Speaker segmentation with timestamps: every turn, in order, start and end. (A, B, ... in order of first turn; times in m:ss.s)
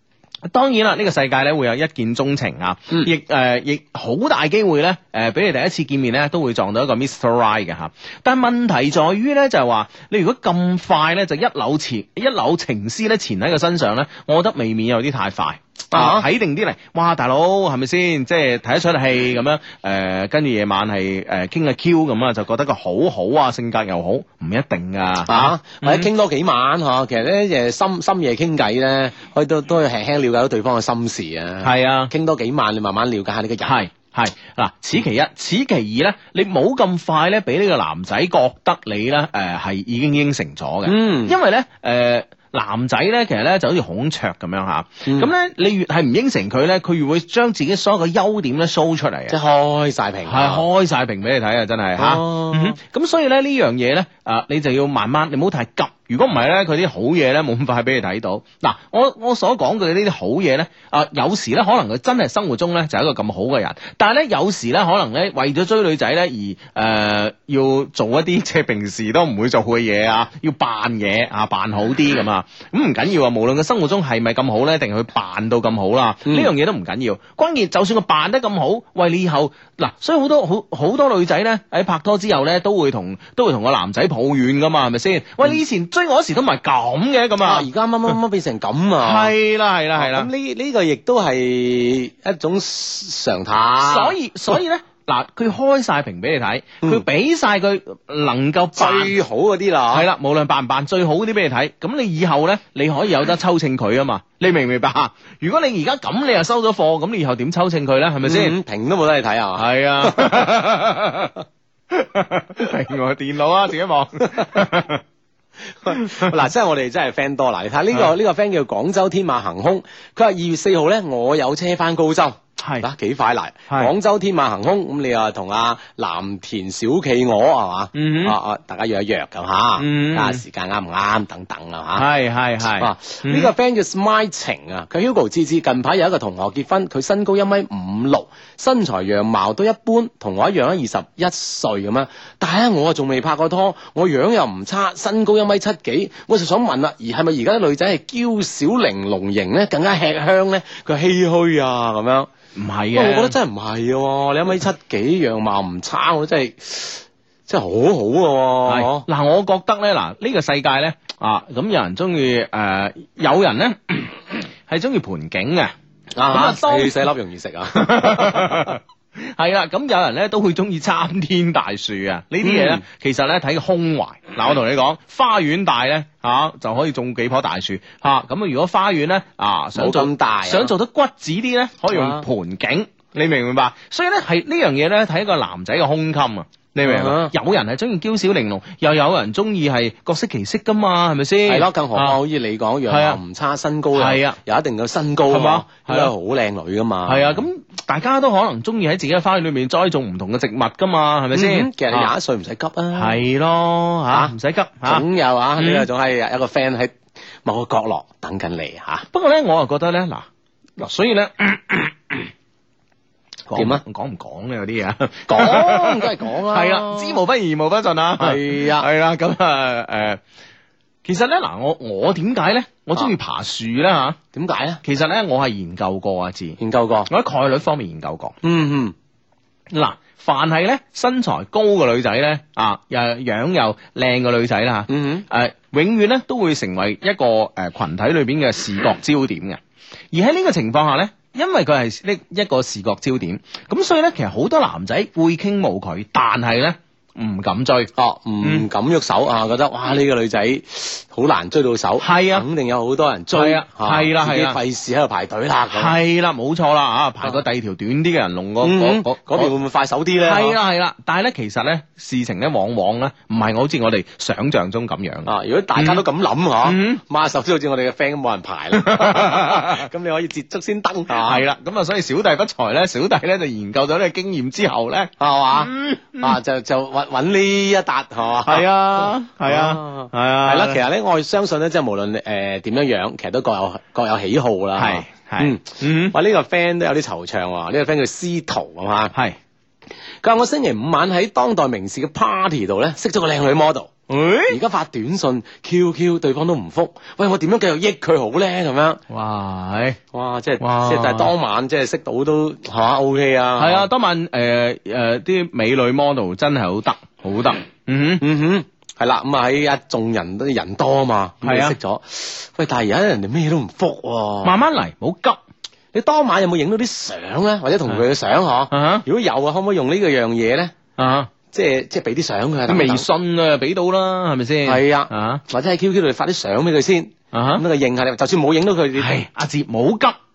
0:00.4-0:26.1 A
0:15.9-0:16.2 B
0:25.3-0:33.8 B
0:31.6-0:32.1 A
0:33.6-0:49.4 A
0:40.8-0:41.4 B
0:45.0-0:45.3 B
0:49.3-0:50.6 B
0:50.2-1:27.7 A
0:52.0-0:52.8 B
1:16.2-1:16.5 B
1:27.4-1:29.3 B
1:29.0-1:30.3 A
1:30.0-1:34.2 B
1:33.8-1:39.1 A
1:38.8-1:40.0 B
1:39.9-1:48.6 A
1:48.2-1:50.6 B
1:49.6-1:51.3 A
1:51.9-1:55.0 A
1:55.8-2:12.0 B
1:55.9-1:56.3 A
2:02.6-2:02.9 A
2:07.9-2:08.4 A
2:09.8-2:10.4 A
2:11.9-2:13.5 A
2:12.8-2:32.3 B
2:32.5-2:33.4 A
2:32.9-2:39.0 B
2:38.6-2:45.7 A
2:46.2-2:48.8 B
2:46.3-2:47.0 A
2:47.7-3:12.2 A
2:52.4-2:52.8 B
2:59.7-3:00.7 B
3:01.9-3:02.2 B
3:06.8-3:07.3 B
3:11.4-3:17.4 B
3:12.9-3:13.2 A
3:14.0-3:14.4 A
3:15.3-3:16.1 A
3:17.0-3:22.1 A
3:21.3-3:23.2 B
3:22.9-3:25.0 A
3:24.1-3:29.0 B
3:25.6-3:25.9 A
3:29.1-3:30.3 A
3:30.8-3:32.3 A
3:33.5-3:40.2 A
3:33.5-3:33.8 B
3:35.3-3:37.2 B
3:38.2-3:38.9 B
3:41.0-3:44.2 A
3:44.3-3:44.8 B
3:44.8-3:48.4 A
3:46.6-3:47.1 B
3:48.4-3:48.9 B
3:49.7-3:59.6 A
3:54.9-3:55.2 B
4:00.1-4:07.9 A
4:07.9-4:16.0 B
4:08.4-4:08.7 A
4:12.0-4:12.4 A
4:13.3-4:14.6 A
4:15.7-4:19.5 A
4:18.6-4:20.6 B
4:20.2-4:26.0 A
4:25.2-4:31.4 B
4:26.6-4:27.0 A
4:28.7-4:29.8 A
4:31.1-4:36.4 A
4:35.2-4:49.1 B
4:38.4-4:40.8 A
4:44.8-4:46.1 A
4:50.2-4:53.9 B
4:54.1-4:54.6 A
4:54.5-4:59.0 B
4:59.1-5:00.0 A
5:00.1-5:03.9 B
5:00.6-5:01.3 A
5:03.6-5:08.2 A
5:08.2-5:14.6 B
5:11.4-5:11.8 A
5:14.4-5:15.4 A
5:15.9-5:20.7 B
5:18.7-5:19.0 A
5:21.0-5:21.3 A
5:21.5-5:23.1 B
5:22.7-5:25.4 A
5:24.6-5:29.2 B
5:27.3-5:27.6 A
5:29.0-5:30.2 A